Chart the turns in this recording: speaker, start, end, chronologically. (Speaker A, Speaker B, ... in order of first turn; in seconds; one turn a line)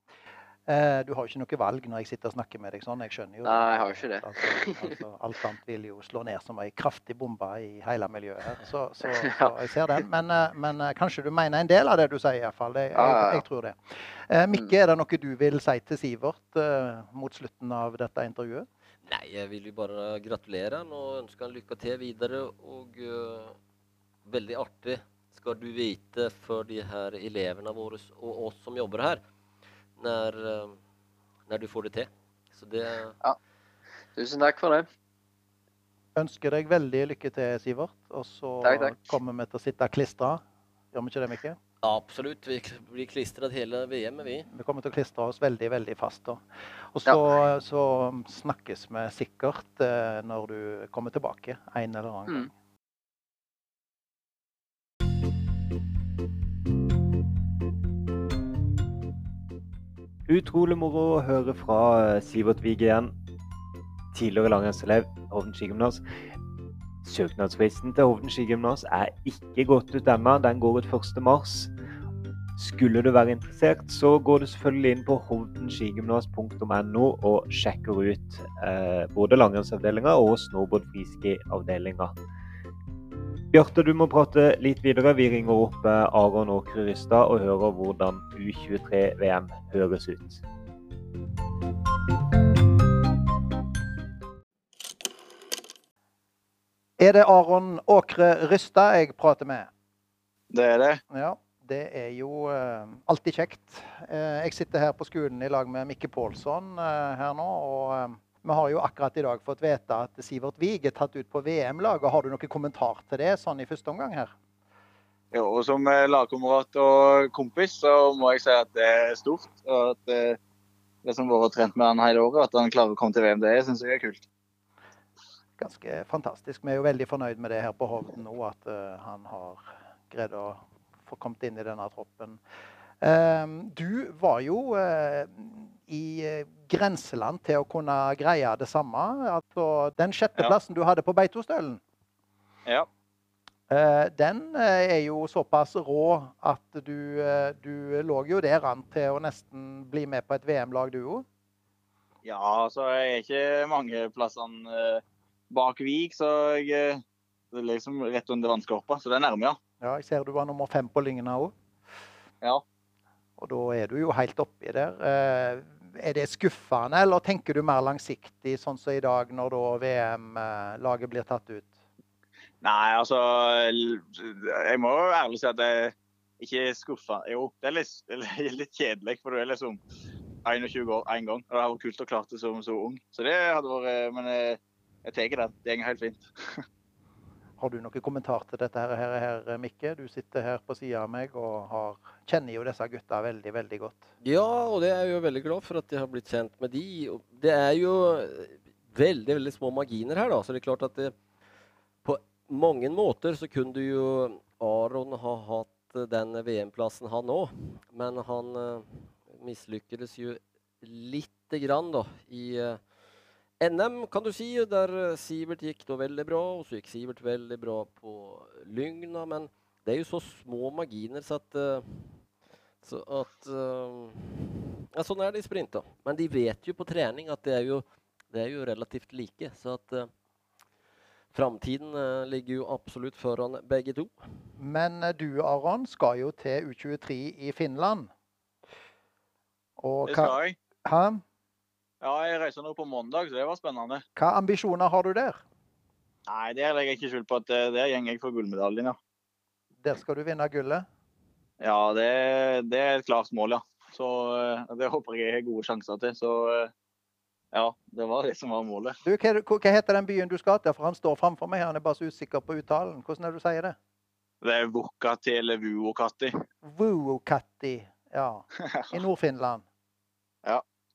Speaker A: 0.7-18.7
Speaker B: 3.4-4.9
Speaker B: 12.9-13.4
Speaker C: 19.0-23.6
Speaker C: 24.2-29.2
Speaker C: 30.0-30.8
Speaker C: 31.5-33.1
Speaker B: 34.1-34.8
Speaker A: 36.1-40.4
Speaker B: 38.6-39.0
Speaker A: 40.9-41.6
Speaker C: 41.8-44.5
Speaker A: 44.5-52.5
Speaker D: 60.3-63.1
Speaker D: 64.1-66.0
Speaker D: 67.0-71.7
Speaker D: 72.6-82.1
Speaker D: 83.5-90.4
Speaker A: 97.0-99.7
Speaker E: 100.5-101.0
Speaker A: 101.1-114.3
Speaker E: 115.3-120.4
Speaker E: 121.0-124.2
Speaker A: 125.6-132.4
Speaker A: 133.0-141.8
Speaker A: 143.7-151.2
Speaker E: 152.2-157.0
Speaker E: 157.5-159.6
Speaker A: 159.8-161.5
Speaker A: 163.4-171.8
Speaker E: 172.6-179.8
Speaker E: 180.4-186.6
Speaker A: 187.6-194.0
Speaker C: 194.2-201.1
Speaker C: 202.0-212.8
Speaker C: 213.6-222.2
Speaker C: 222.8-230.1
Speaker C: 231.3-234.3
Speaker A: 234.6-238.1
Speaker A: 239.8-240.3
Speaker E: 240.1-240.6
Speaker A: 240.8-241.2
Speaker E: 242.0-244.0
Speaker A: 244.2-245.4
Speaker E: 246.3-248.9
Speaker A: 249.8-250.8
Speaker E: 251.6-256.7
Speaker E: 257.5-259.0
Speaker A: 259.0-263.8
Speaker E: 264.4-266.3
Speaker A: 266.6-269.6
Speaker E: 268.7-269.0